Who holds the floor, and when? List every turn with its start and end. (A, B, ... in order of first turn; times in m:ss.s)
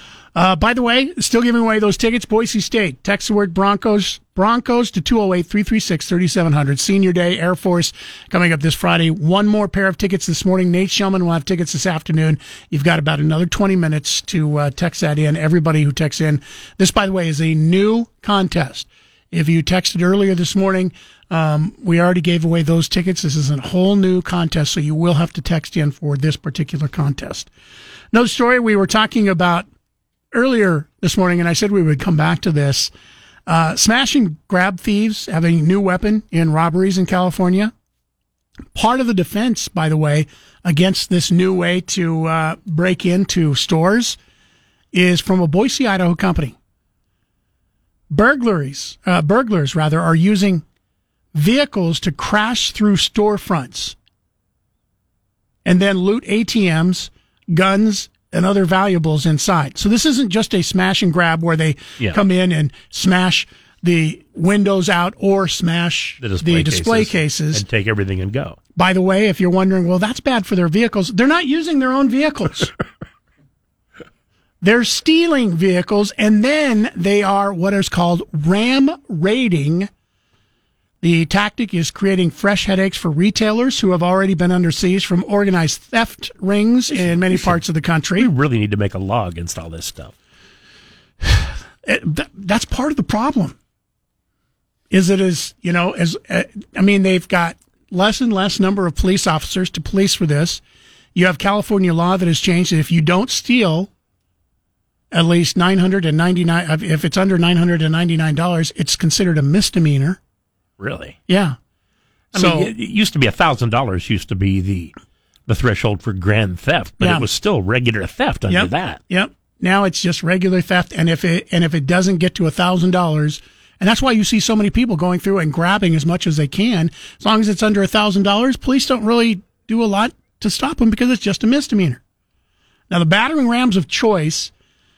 0:00.4-0:27.5 A
0:28.1-0:29.7 A
0:30.3-0:32.9 A
0:33.5-0:37.7 A
0:38.8-0:44.2 A
0:44.9-0:46.6 A
0:48.1-0:50.6 A
0:51.3-0:54.0 A
0:55.6-1:07.6 A
1:06.2-1:08.6 B
1:08.8-1:12.7 A
1:14.6-1:19.9 A
1:21.0-1:28.3 A
1:26.9-1:27.6 B
1:28.2-1:30.1 B
1:31.2-1:33.6 A
1:34.9-1:40.6 A
1:41.2-1:43.9 A
1:45.1-1:50.2 A
1:50.8-1:51.2 B
1:51.3-1:51.6 A
1:52.3-1:54.9 B
1:52.3-1:52.7 A
1:55.5-1:59.0 B
1:57.0-1:57.3 A
1:58.5-2:12.0 A
2:12.9-2:14.5 A